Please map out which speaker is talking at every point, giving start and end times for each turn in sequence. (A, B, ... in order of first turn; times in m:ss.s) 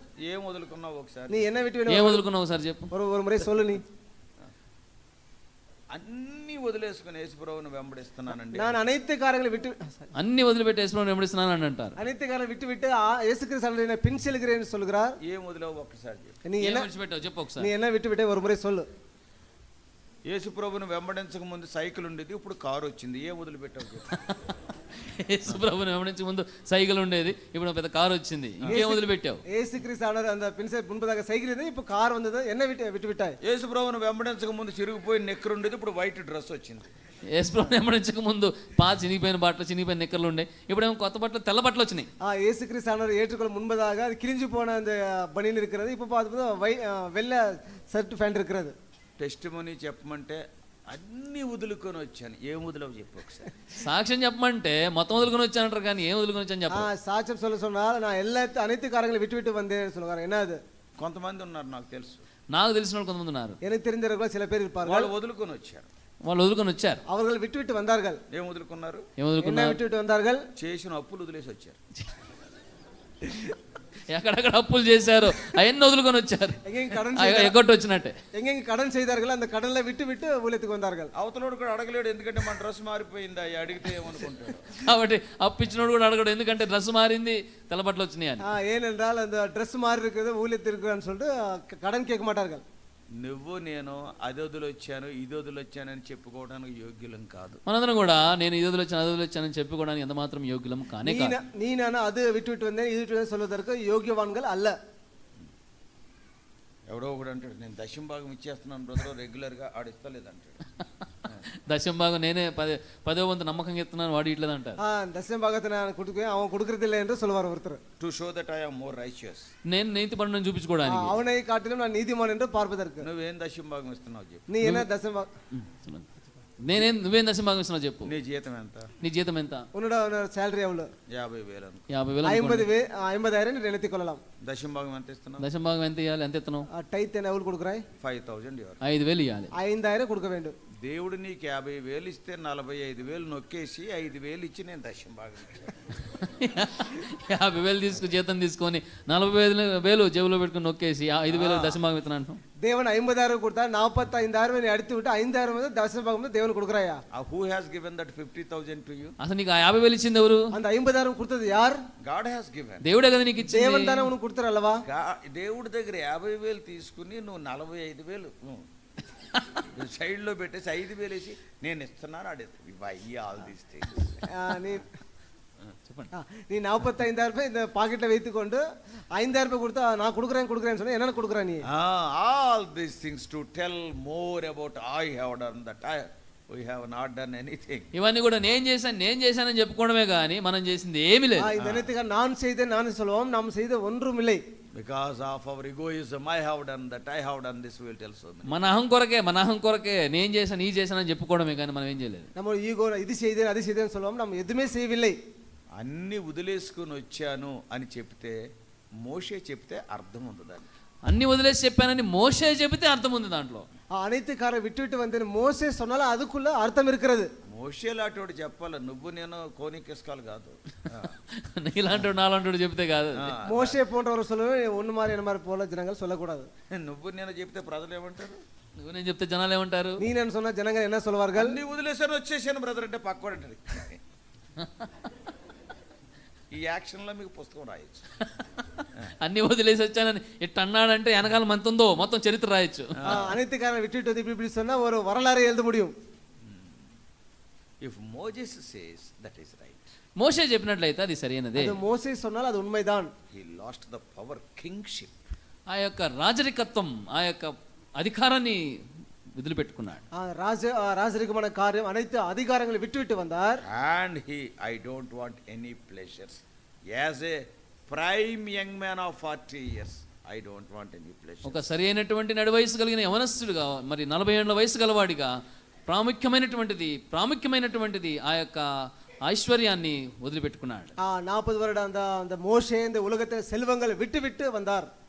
0:00.3-0:01.5 A
0:01.3-0:02.2 B
0:01.9-0:02.9 C
0:02.9-0:03.8 B
0:05.9-0:08.7 A
0:08.5-0:10.1 B
0:10.2-0:12.0 C
0:12.0-0:15.2 B
0:15.2-0:16.4 A
0:16.5-0:16.9 B
0:16.6-0:17.7 C
0:17.6-0:18.9 B
0:20.3-0:24.1 A
0:25.0-0:29.4 C
0:28.7-0:33.4 B
0:33.4-0:36.9 A
0:37.3-0:42.1 C
0:42.2-0:48.8 B
0:49.2-0:53.5 A
0:53.8-0:56.9 C
0:56.7-1:00.6 B
1:01.0-1:02.2 A
1:02.5-1:03.6 C
1:03.6-1:05.1 B
1:04.8-1:05.9 A
1:06.2-1:07.0 C
1:07.1-1:08.2 B
1:08.3-1:09.1 A
1:09.2-1:09.8 C
1:09.4-1:10.4 B
1:10.6-1:11.8 A
1:14.1-1:18.2 C
1:16.6-1:17.6 B
1:18.4-1:21.1 B
1:21.2-1:24.7 A
1:24.7-1:28.4 C
1:28.4-1:32.6 B
1:33.2-1:37.6 A
1:37.7-1:41.4 C
1:41.0-1:44.8 B
1:46.9-1:50.6 A
1:51.7-1:54.8 C
1:54.8-1:57.8 B
1:58.0-1:59.5 A
1:59.7-2:01.2 C
2:00.9-2:03.1 B
2:03.0-2:04.5 A
2:04.5-2:05.3 B
2:05.5-2:06.1 C
2:06.6-2:08.2 C
2:08.0-2:08.9 A
2:09.0-2:09.7 C
2:09.8-2:10.9 B
2:11.1-2:11.9 A
2:11.9-2:12.7 C
2:12.2-2:14.2 B
2:14.4-2:15.5 A
2:15.4-2:16.7 C
2:16.7-2:17.8 B
2:18.0-2:18.8 A
2:18.8-2:19.5 C
2:19.5-2:20.5 B
2:20.8-2:25.9 A
2:26.2-2:32.4 C
2:31.4-2:31.7 B
2:31.4-2:31.7 A
2:32.6-2:37.0 B
2:37.1-2:39.2 A
2:39.2-2:40.5 C
2:40.5-2:41.8 B
2:42.0-2:42.8 A
2:42.8-2:44.1 C
2:43.4-2:44.8 B
2:44.9-2:48.7 A
2:49.6-2:54.3 A
2:54.3-2:54.9 B
2:56.1-2:58.6 B
2:59.2-3:01.7 B
3:01.7-3:07.9 A
3:07.9-3:11.5 C
3:11.4-3:14.4 B
3:11.6-3:11.9 A
3:14.8-3:18.5 A
3:18.4-3:22.3 C
3:22.4-3:25.2 B
3:25.8-3:28.4 A
3:29.0-3:30.7 A
3:31.0-3:33.7 C
3:34.0-3:37.3 B
3:37.5-3:41.2 A
3:41.4-3:43.4 C
3:43.2-3:43.8 A
3:43.5-3:46.5 B
3:46.7-3:48.4 A
3:48.8-3:50.0 C
3:50.0-3:51.6 B
3:51.3-3:54.0 A
3:56.5-3:58.1 A
3:59.2-4:03.3 C
4:03.0-4:03.4 A
4:03.0-4:05.9 B
4:06.4-4:06.9 A
4:07.8-4:09.8 A
4:10.2-4:11.8 C
4:11.6-4:13.1 B
4:13.3-4:15.1 A
4:15.7-4:18.6 C
4:19.4-4:20.0 C
4:20.2-4:23.6 B
4:23.7-4:31.7 A
4:31.4-4:35.3 C
4:35.9-4:38.7 C
4:39.2-4:40.9 C
4:41.0-4:44.9 B